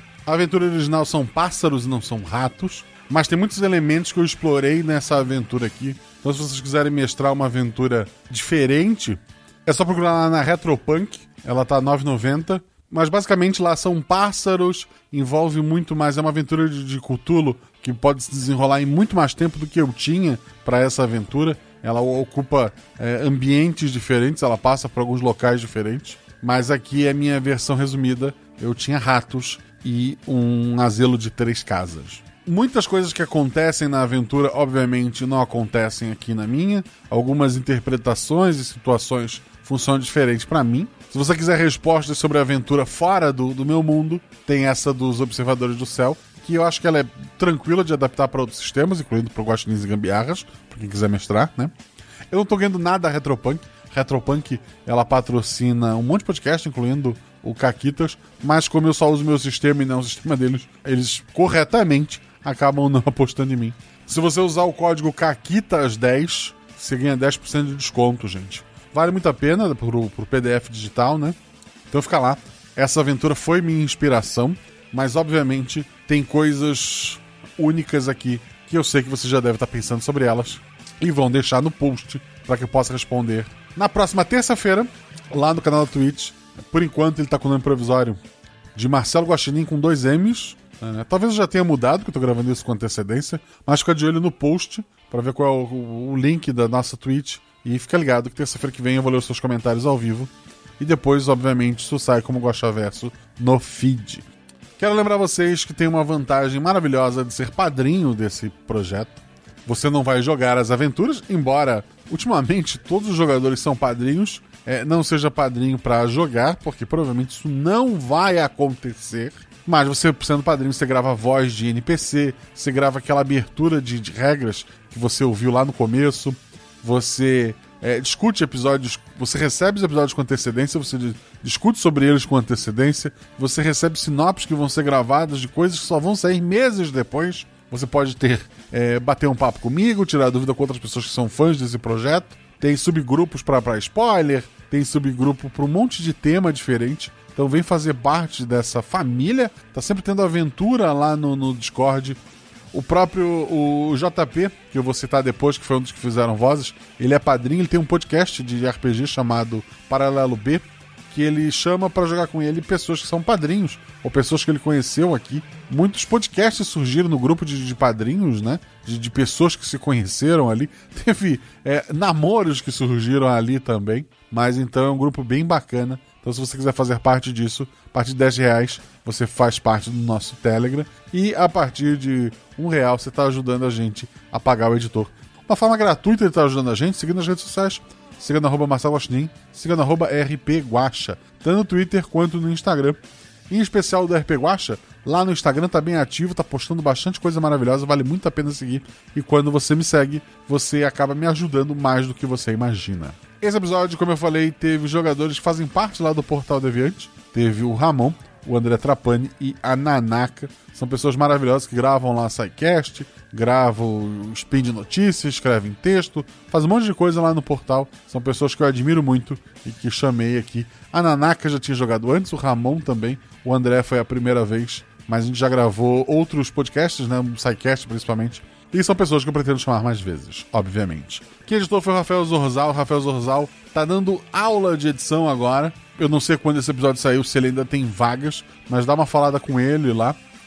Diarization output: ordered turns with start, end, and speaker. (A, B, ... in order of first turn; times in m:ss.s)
0:00.3-0:51.7 A
0:52.3-1:11.4 A
1:11.9-1:28.2 A
1:28.8-1:44.3 A
1:44.8-2:32.2 A
2:32.7-4:00.2 A